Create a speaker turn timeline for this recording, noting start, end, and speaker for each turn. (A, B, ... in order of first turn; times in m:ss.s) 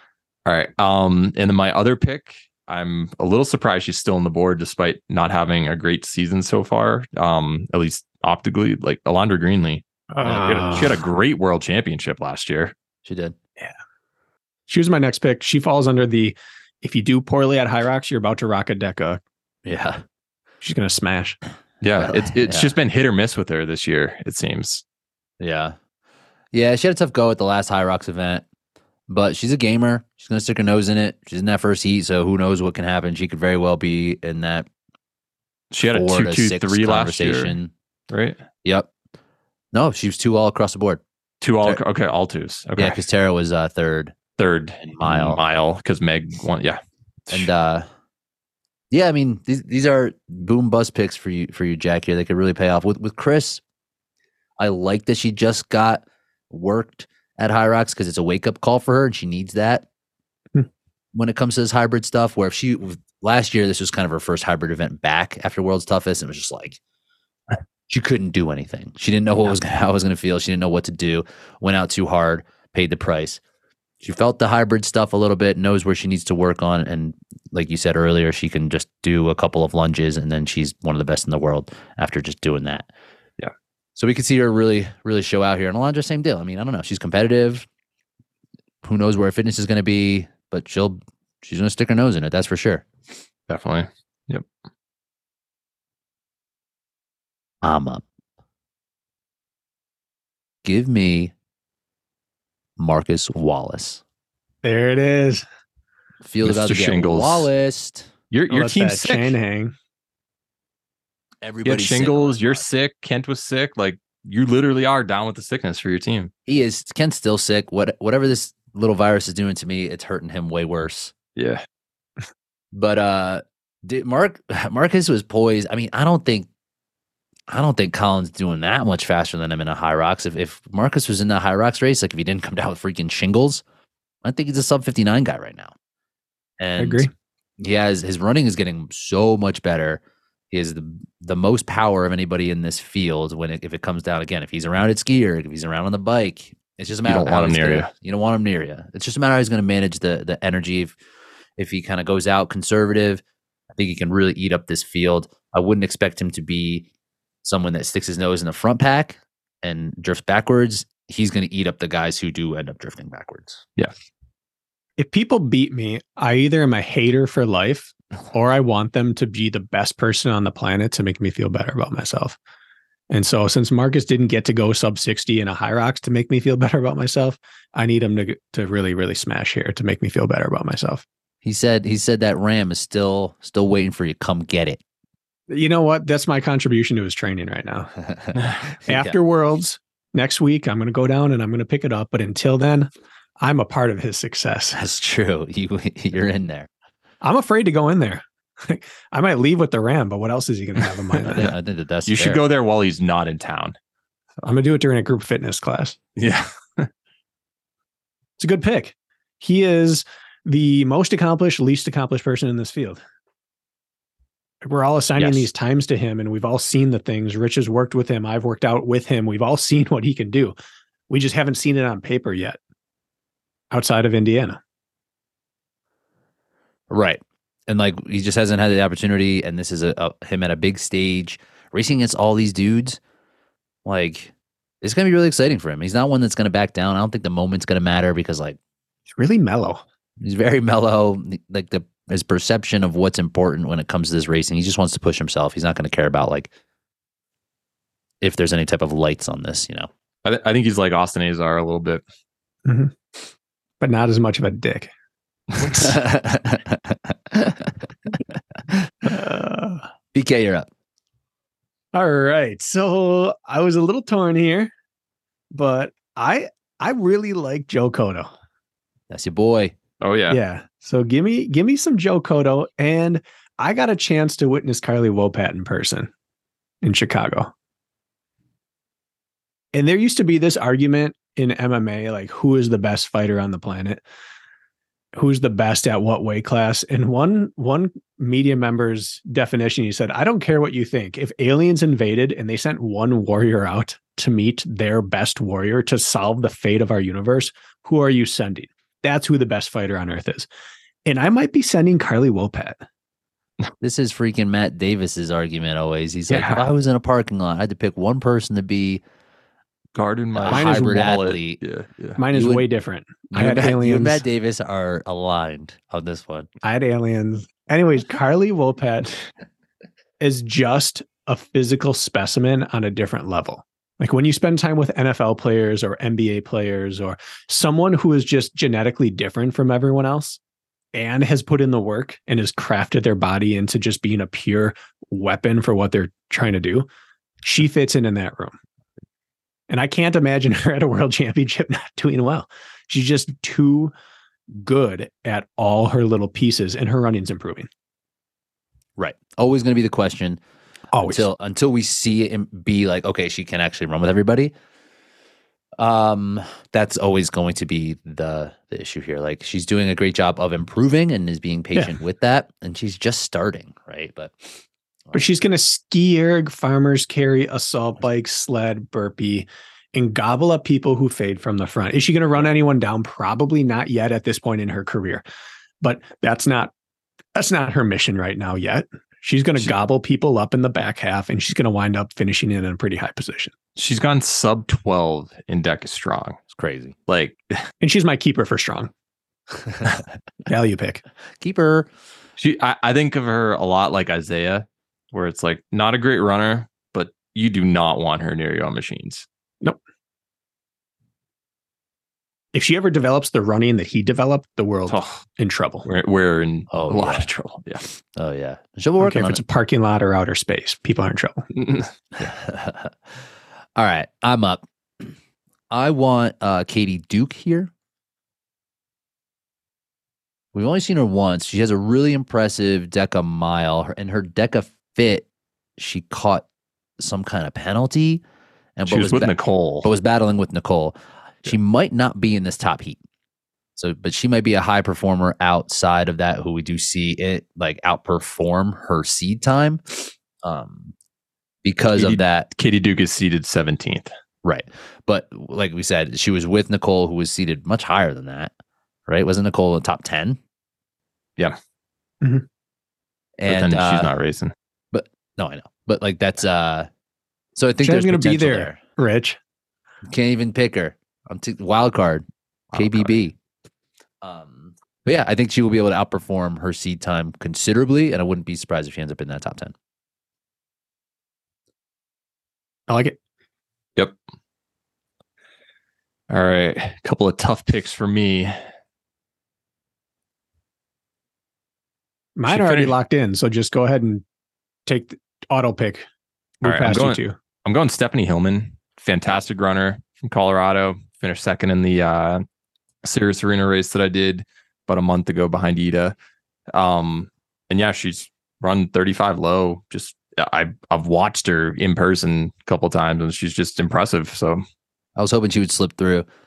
0:00.4-0:12.7 A
0:10.1-0:11.0 B
0:13.0-0:13.4 C
0:14.7-0:19.2 B
0:19.6-0:20.0 C
0:20.6-0:21.4 B
0:21.8-0:24.8 A
0:22.0-0:22.7 C
0:25.4-0:25.8 C
0:26.5-0:28.4 C
0:29.1-0:34.7 C
0:35.7-0:37.6 A
0:35.9-0:37.7 C
0:38.1-0:38.4 A
0:38.6-0:38.9 C
0:39.7-0:41.0 C
0:41.4-0:43.0 A
0:42.8-0:44.2 C
0:44.4-0:47.5 A
0:44.8-0:45.4 C
0:47.3-0:47.9 C
0:48.9-0:53.6 C
0:54.6-0:59.8 C
1:01.1-1:06.8 C
1:07.9-1:13.4 C
1:14.0-1:22.9 C
1:24.0-1:27.6 C
1:28.8-1:32.8 C
1:33.5-1:34.4 A
1:37.6-1:38.0 C
1:40.6-1:41.3 C
1:42.8-1:44.0 C
1:44.6-1:45.4 B
1:46.2-1:48.1 C
1:46.4-1:47.5 A
1:48.3-1:49.4 A
1:48.5-1:49.7 B
1:51.4-1:52.6 C
1:51.6-1:56.3 A
1:56.4-2:01.1 C
2:01.4-2:01.6 A
2:02.7-2:06.5 C
2:07.5-2:13.6 C
2:14.2-2:15.7 C
2:16.6-2:31.0 C
2:16.8-2:17.1 B
2:27.0-2:27.9 A
2:31.6-2:33.2 C
2:33.8-2:36.9 C
2:37.4-2:43.6 C
2:45.0-2:52.4 B
2:53.1-3:01.0 B
3:01.4-3:04.8 C
3:05.5-3:07.9 B
3:08.0-3:09.2 C
3:08.8-3:14.8 B
3:14.7-3:16.7 C
3:17.2-3:21.5 B
3:21.2-3:22.4 C
3:22.1-3:23.7 A
3:24.4-3:26.0 B
3:26.2-3:26.9 A
3:28.4-3:33.0 B
3:34.6-3:40.5 B
3:35.2-3:35.5 C
3:41.1-3:42.6 B
3:43.7-3:44.6 B
3:46.9-3:53.0 C
3:53.8-3:58.6 C
3:59.1-3:59.8 B
4:00.2-4:06.5 C
4:08.2-4:09.9 C
4:10.2-4:12.0 A
4:12.6-4:13.0 B
4:13.8-4:14.9 B
4:15.6-4:15.9 A
4:15.6-4:17.7 C
4:19.0-4:19.9 B
4:20.1-4:20.7 C
4:21.9-4:24.7 B
4:25.5-4:28.3 B
4:29.1-4:29.7 C
4:30.0-4:30.4 A
4:30.3-4:36.1 B
4:36.8-4:37.5 B
4:39.7-4:44.0 B
4:45.1-5:00.5 B
5:01.0-5:02.8 B
5:03.8-5:09.0 C
5:06.3-5:06.7 A
5:09.9-5:12.2 A
5:10.3-5:11.6 C
5:10.5-5:11.2 B
5:12.2-5:14.2 B
5:12.3-5:12.6 C
5:13.3-5:16.5 C
5:16.6-5:19.2 B
5:20.2-5:30.4 B
5:30.9-5:36.9 B
5:37.4-5:38.6 B
5:39.7-5:43.9 B
5:44.5-5:47.7 B
5:49.0-5:50.4 C
5:50.9-5:51.3 B
5:51.0-5:54.5 C
5:55.8-6:04.5 C
6:05.1-6:15.2 B
6:15.8-6:16.7 B
6:17.3-6:23.5 B
6:23.8-6:26.4 A
6:26.5-6:26.9 C
6:27.1-6:27.7 A
6:27.8-6:28.9 B
6:30.4-6:31.0 B
6:31.4-6:31.9 C
6:32.4-6:39.2 A
6:42.5-6:45.9 B
6:44.9-6:45.2 A
6:45.8-6:47.8 A
6:46.7-6:47.3 C
6:48.1-6:49.4 C
6:49.0-6:51.4 B
6:51.5-6:51.9 A
6:52.2-6:53.2 C
6:53.8-6:55.1 C
6:55.7-6:57.7 C
7:00.5-7:05.2 C
7:05.8-7:06.4 C
7:07.0-7:08.2 C
7:08.8-7:13.0 C
7:08.9-7:09.9 A
7:13.8-7:20.9 C
7:21.6-7:22.5 C
7:22.0-7:24.1 A
7:24.4-7:28.5 C
7:29.1-7:30.4 C
7:33.4-7:34.1 C
7:33.5-7:34.5 A
7:34.9-7:36.9 C
7:37.6-7:38.8 C
7:37.8-7:39.4 B
7:40.0-7:43.4 C
7:42.7-7:43.2 A
7:44.2-7:49.7 C
7:52.9-7:53.2 B
7:56.3-7:58.6 A
8:02.4-8:04.2 B
8:02.5-8:03.0 A
8:04.8-8:06.0 B
8:06.6-8:07.4 B
8:06.6-8:12.4 A
8:13.0-8:16.1 A
8:16.7-8:24.6 A
8:25.2-8:26.2 C